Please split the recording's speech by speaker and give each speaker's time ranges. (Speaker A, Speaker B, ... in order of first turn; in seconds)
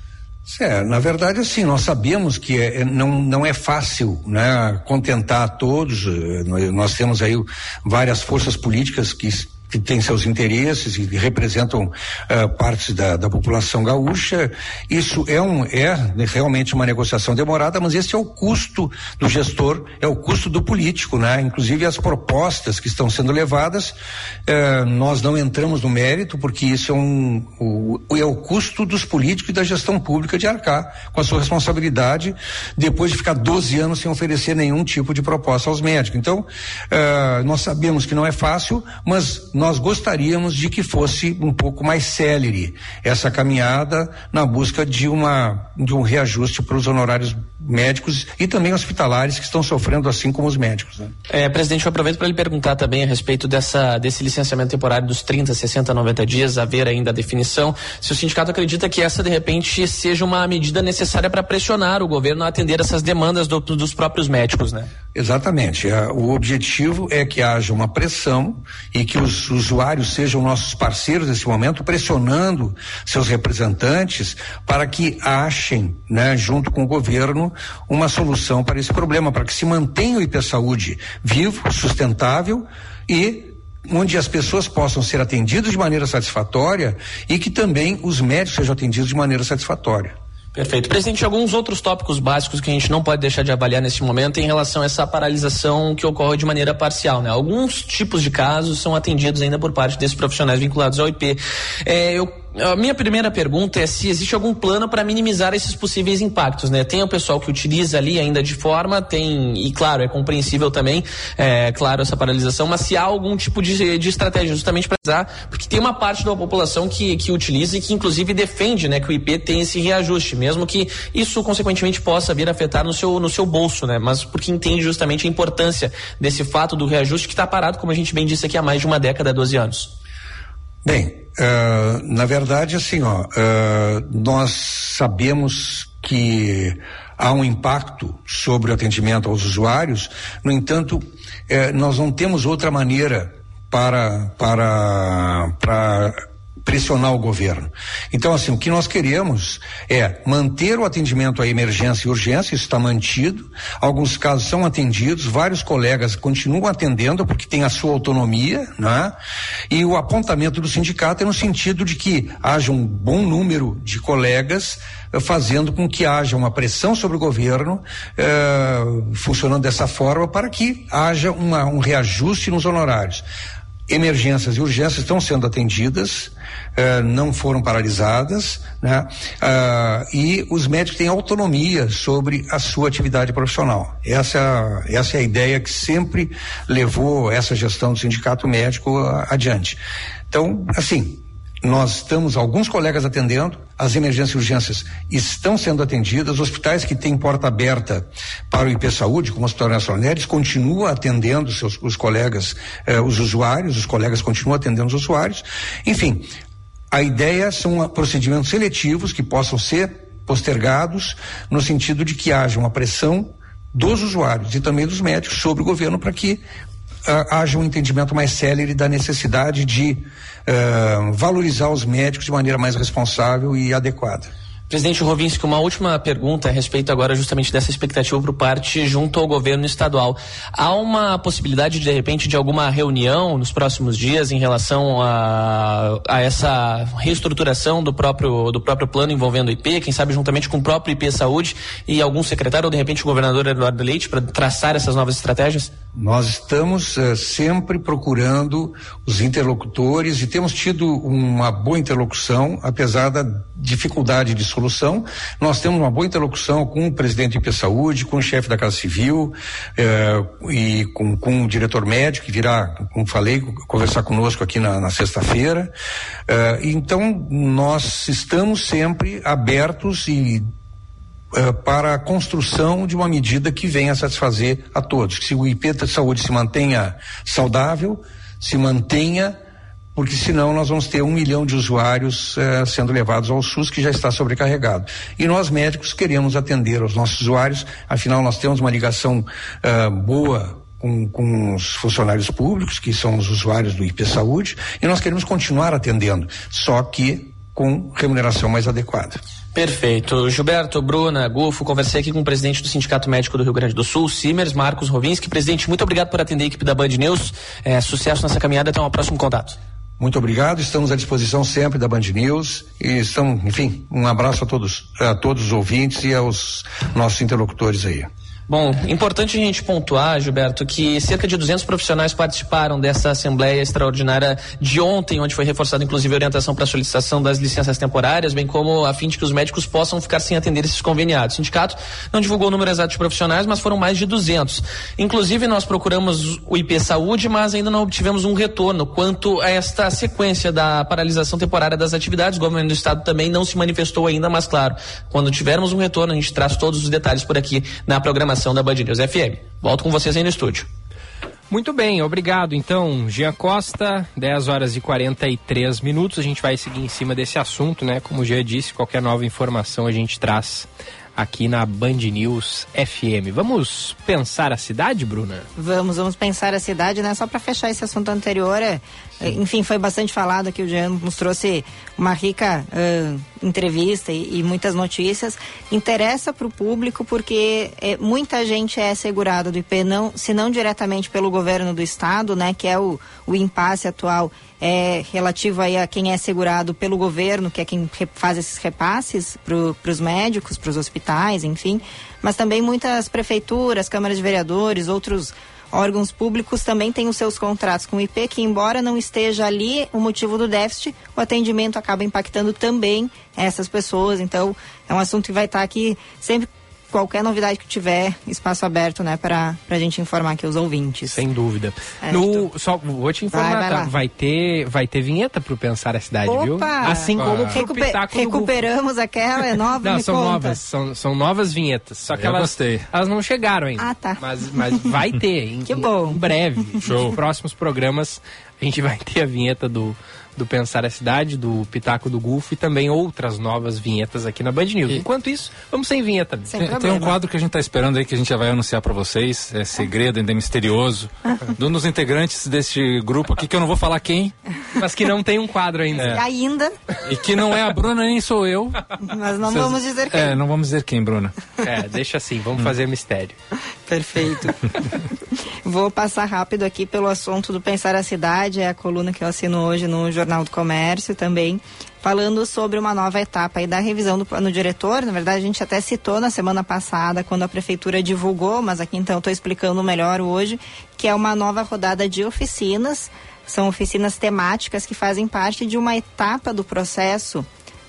Speaker A: 0.5-51.1, 65.1-90.2, 130.8-159.2, 159.7-173.2, 173.9-189.8, 190.3-206.3, 206.9-216.4, 217.1-224.3, 246.0-265.7, 266.3-270.5, 271.3-279.4, 279.9-299.2, 310.0-318.1
Speaker B: 51.3-64.9, 90.5-129.9, 224.7-245.7, 299.6-309.6, 318.5-350.7
Speaker C: 351.5-365.5, 411.1-418.6, 419.8-436.5, 444.8-446.2, 451.6-453.4
Speaker D: 365.6-411.2, 412.0-412.5, 413.3-413.9, 416.3-420.6, 423.8-424.2, 425.7-426.2, 436.5-437.2, 446.0-446.8, 449.1-450.3, 453.9-454.7, 455.6-477.5
Speaker E: 417.1-417.6, 422.1-422.9, 426.8-427.2, 436.6-444.3, 447.1-448.9, 449.4-451.4